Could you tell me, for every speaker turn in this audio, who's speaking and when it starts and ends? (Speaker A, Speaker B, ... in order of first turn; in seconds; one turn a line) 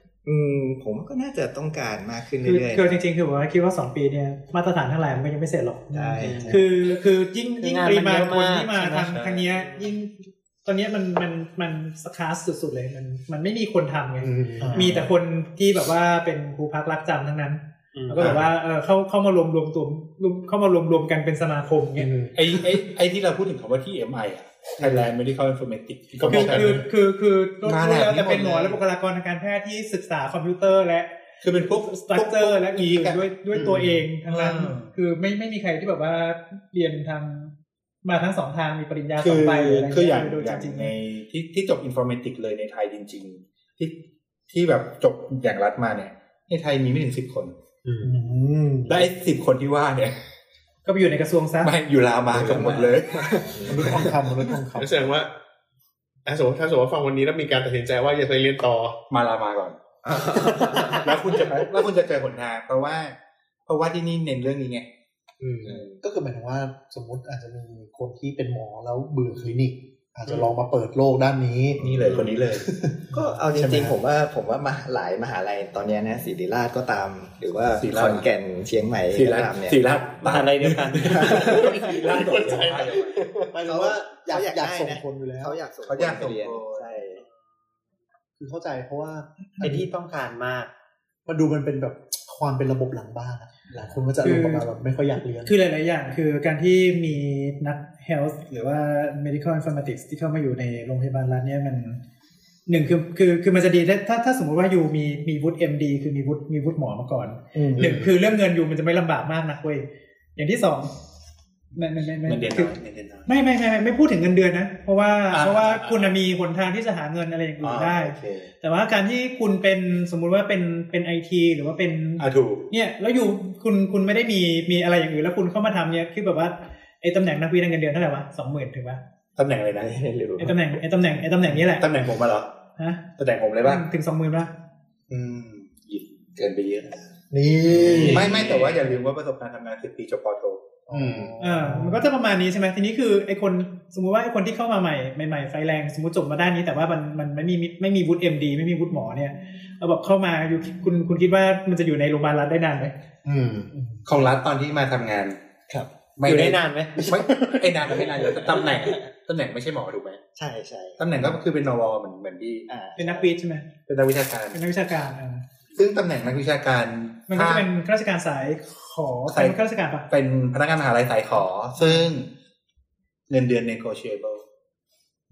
Speaker A: 0.2-3.0
Speaker B: 2.4-22.1
Speaker A: 5.9-6.6
Speaker C: 6.2-6.6
Speaker C: 7.6-9.9
Speaker D: 8.9-9.5
Speaker E: 14.2-14.8
Speaker F: 14.6-15.1
Speaker C: 14.7-15.1
Speaker C: 17.9-18.3
Speaker E: 22.0-22.4
Speaker D: 22.3-26.8
Speaker E: 26.2-26.8
Speaker B: 26.3-31.1
Speaker D: 27.6-28.8
Speaker D: 31.4-33.3
Speaker B: 31.8-40.9
Speaker E: 33.5-33.9
Speaker D: 34.3-34.9
Speaker D: 39.2-47.5
Speaker E: 47.8-48.1
Speaker B: 48.0-49.0
Speaker D: 48.9-50.2
Speaker B: 50.9-51.7
Speaker D: 51.6-53.5
Speaker A: 52.3-54.1
Speaker F: 53.6-55.0
Speaker E: 54.8-55.3
Speaker E: 56.2-59.0
Speaker D: 59.1-59.8
Speaker A: 60.0-61.4
Speaker D: 60.6-63.1
Speaker D: 63.7-64.9
Speaker E: 65.4-65.8
Speaker F: 66.0-71.9
Speaker D: 71.8-72.7
Speaker C: 72.0-72.3
Speaker F: 72.6-73.9
Speaker A: 73.1-79.8
Speaker D: 73.6-73.9
Speaker D: 77.7-78.3
Speaker D: 79.1-83.2
Speaker C: 80.2-81.7
Speaker E: 81.2-83.5
Speaker F: 83.5-85.6
Speaker A: 83.6-87.2
Speaker D: 85.8-86.9
Speaker F: 88.4-89.8
Speaker C: 89.6-90.7
Speaker F: 91.2-95.5
Speaker D: 93.7-94.0
Speaker B: 94.2-94.7
Speaker B: 95.4-102.0
Speaker B: 102.7-110.9
Speaker F: 107.5-108.0
Speaker B: 111.7-112.7
Speaker D: 112.2-113.3
Speaker B: 113.2-129.0
Speaker D: 115.3-116.2
Speaker D: 117.6-118.5
Speaker D: 122.2-122.7
Speaker D: 129.4-130.0
Speaker A: 129.8-130.7
Speaker B: 130.4-131.9
Speaker D: 131.5-132.5
Speaker B: 132.8-133.1
Speaker D: 133.2-133.9
Speaker B: 133.6-134.5
Speaker D: 135.1-137.1
Speaker F: 137.3-138.8
Speaker A: 137.8-138.2
Speaker D: 137.8-140.6
Speaker E: 137.9-138.3
Speaker F: 140.9-142.1
Speaker E: 140.9-141.3
Speaker B: 141.4-152.9
Speaker E: 153.2-153.7
Speaker D: 154.0-155.4
Speaker D: 156.2-160.2
Speaker C: 156.2-157.1
Speaker A: 157.9-159.0
Speaker A: 160.3-161.4
Speaker D: 161.0-162.7
Speaker A: 162.7-163.3
Speaker B: 163.0-163.7
Speaker D: 163.9-164.6
Speaker B: 164.5-165.4
Speaker D: 165.7-167.7
Speaker B: 167.3-170.1
Speaker D: 169.3-172.3
Speaker D: 173.3-174.4